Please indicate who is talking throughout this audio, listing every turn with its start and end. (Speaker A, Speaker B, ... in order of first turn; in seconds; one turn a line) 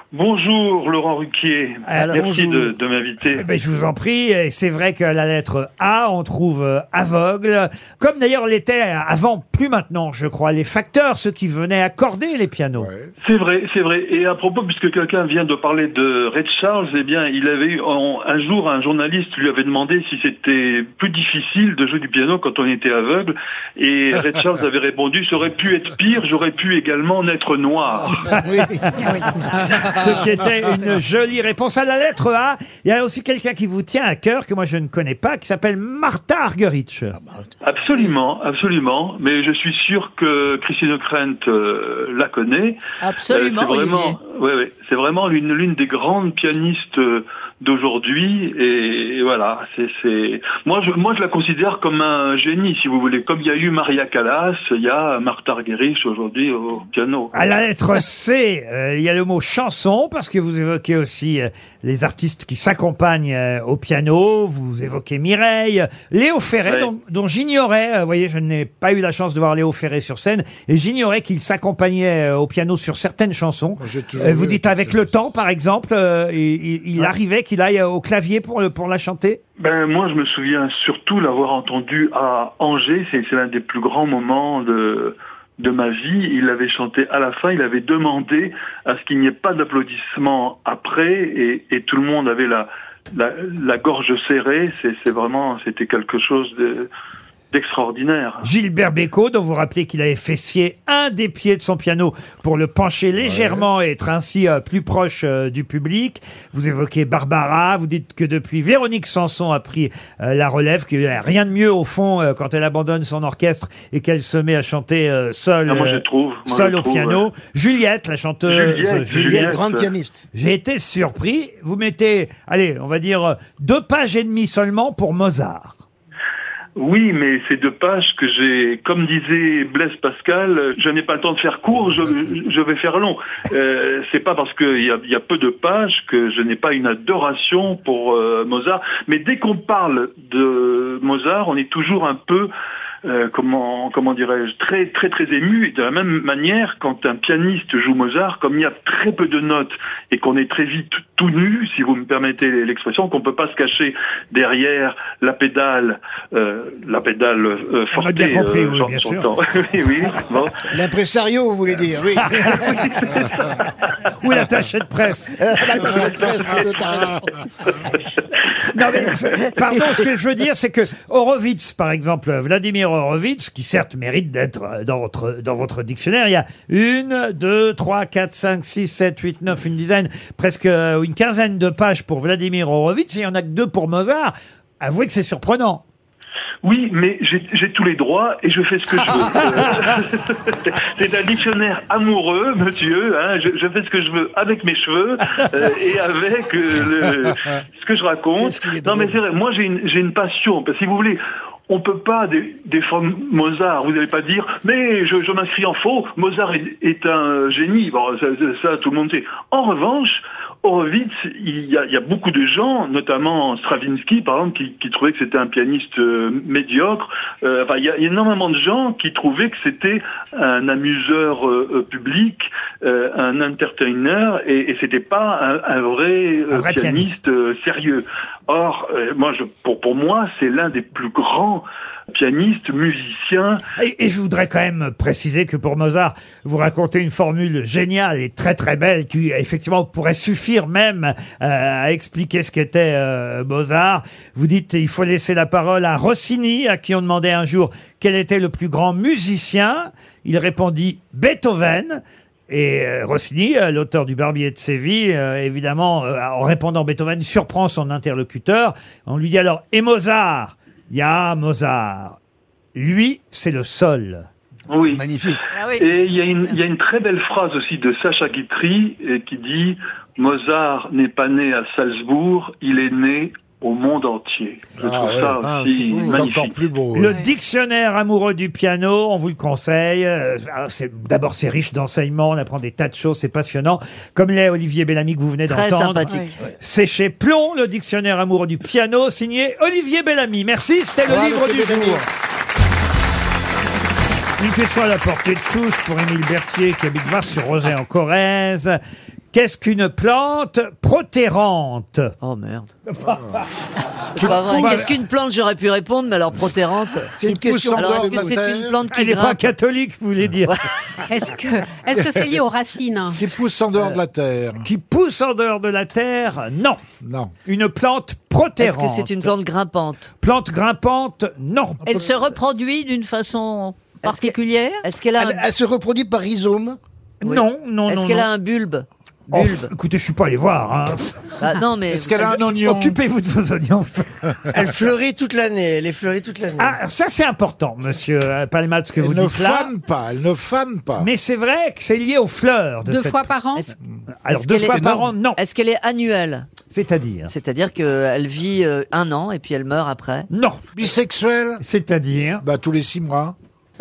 Speaker A: 0.1-3.5
Speaker B: 1.9-2.1
Speaker C: 1.9-2.3
Speaker D: 2.3-2.7
Speaker B: 3.4-12.9
Speaker E: 12.8-13.1
Speaker A: 13.2-28.2
Speaker B: 28.2-37.1
Speaker D: 28.3-30.0
Speaker A: 37.6-57.4
Speaker F: 43.0-44.2
Speaker B: 57.3-79.4
Speaker A: 66.6-66.9
Speaker E: 73.8-75.2
Speaker A: 79.6-96.9
Speaker A: 97.5-98.5
Speaker B: 98.4-119.6
Speaker E: 103.2-103.7
Speaker A: 115.7-117.3
Speaker A: 118.5-119.9
Speaker D: 119.2-120.2
Speaker B: 120.3-125.8
Speaker A: 126.8-142.5
Speaker A: 143.0-160.7
Speaker B: 157.9-159.3
Speaker D: 160.7-162.8
Speaker B: 162.4-162.7
Speaker A: 162.6-163.6
Speaker B: 164.2-166.2
Speaker D: 165.4-167.2
Speaker B: 168.7-185.8
Speaker A: 186.6-233.6
Speaker B: 189.1-189.7
Speaker D: 198.4-199.1
Speaker B: 226.5-227.2
Speaker B: 233.8-262.2
Speaker B: 262.7-264.3
Speaker A: 264.7-265.1
Speaker D: 264.9-265.4
Speaker F: 265.5-266.6
Speaker A: 265.7-276.6
Speaker E: 274.8-277.2
Speaker C: 275.5-276.3
Speaker B: 276.9-292.0
Speaker C: 285.5-286.3
Speaker D: 291.1-292.0
Speaker B: 294.4-298.8
Speaker B: 299.3-302.1
Speaker C: 302.2-302.7
Speaker B: 302.9-303.4
Speaker C: 304.1-307.1
Speaker B: 304.2-304.9
Speaker E: 304.3-304.8
Speaker D: 307.2-308.4
Speaker E: 307.2-308.8
Speaker C: 307.7-309.5
Speaker B: 308.9-310.6
Speaker G: 311.1-313.2
Speaker E: 313.1-314.7
Speaker B: 314.6-316.8
Speaker E: 317.0-317.3
Speaker B: 317.4-319.3
Speaker C: 318.6-320.1
Speaker B: 320.2-321.9
Speaker F: 321.8-324.8
Speaker C: 324.0-325.4
Speaker D: 325.2-326.8
Speaker B: 327.2-328.3
Speaker C: 327.2-329.7
Speaker B: 329.3-331.4
Speaker C: 331.4-332.4
Speaker E: 331.9-333.0
Speaker B: 332.4-334.5
Speaker H: 334.5-336.8
Speaker B: 336.6-339.7
Speaker E: 339.0-341.1
Speaker B: 341.0-343.3
Speaker G: 342.9-343.7
Speaker B: 344.2-345.4
Speaker C: 344.3-346.5
Speaker D: 344.5-345.1
Speaker B: 346.7-347.3
Speaker C: 347.3-350.3
Speaker B: 350.3-350.6
Speaker E: 350.7-351.6
Speaker B: 351.6-352.4
Speaker E: 352.4-353.3